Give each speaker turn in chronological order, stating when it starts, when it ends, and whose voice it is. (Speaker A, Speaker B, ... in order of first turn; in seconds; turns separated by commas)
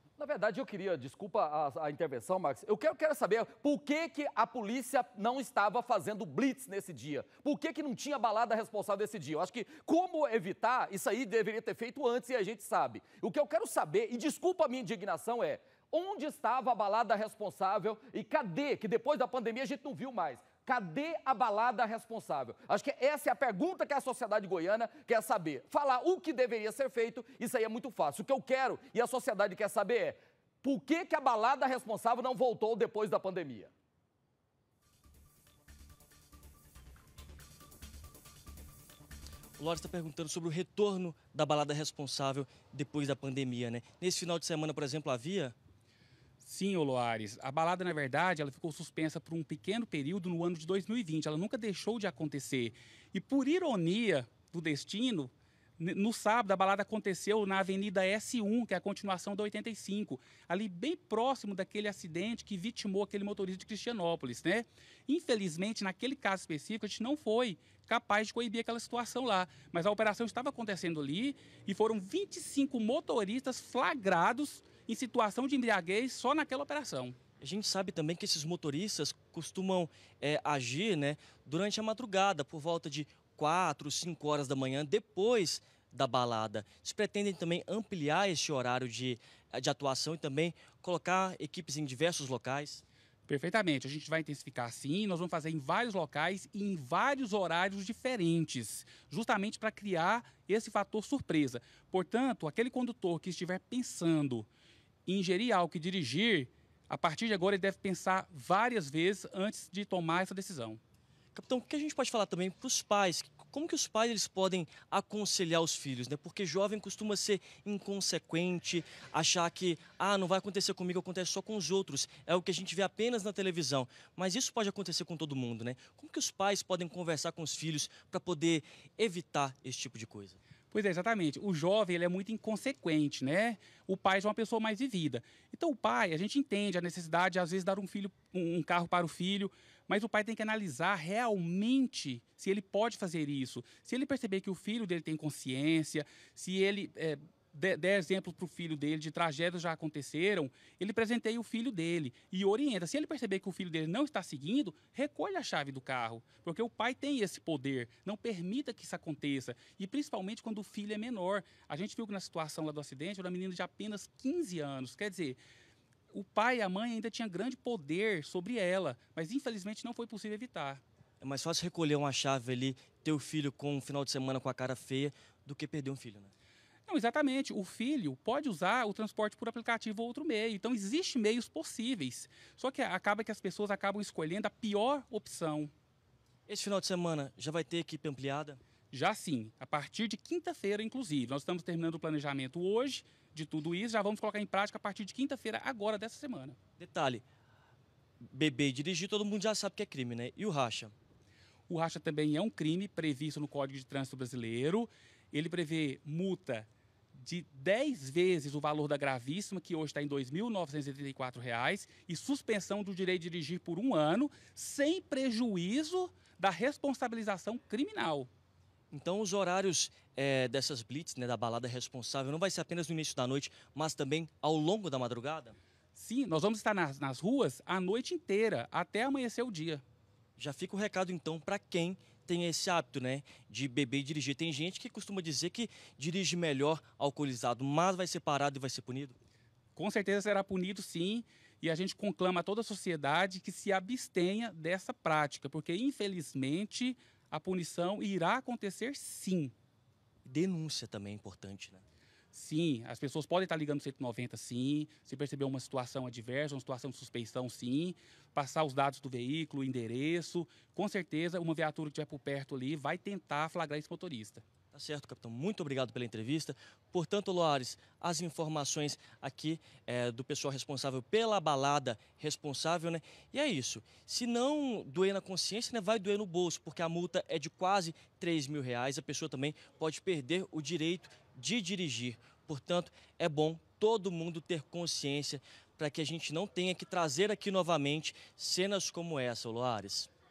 Speaker A: 0.2-33.7, Speaker B: 39.6-45.5, Speaker C: 46.4-77.2, Speaker B: 77.4-92.8, Speaker C: 93.3-104.5, Speaker C: 105.0-110.8, Speaker B: 111.3-130.4, Speaker C: 130.7-165.4, Speaker C: 166.1-170.8, Speaker B: 171.2-176.3, Speaker C: 176.9-185.7, Speaker B: 186.5-188.6, Speaker C: 188.9-196.6, Speaker B: 196.8-197.2, Speaker B: 198.3-200.9, Speaker C: 201.7-218.3, Speaker B: 218.9-225.6, Speaker C: 225.9-229.8, Speaker B: 230.4-239.1, Speaker C: 239.8-249.5, Speaker B: 250.2-251.8, Speaker C: 252.3-264.4, Speaker B: 264.7-290.1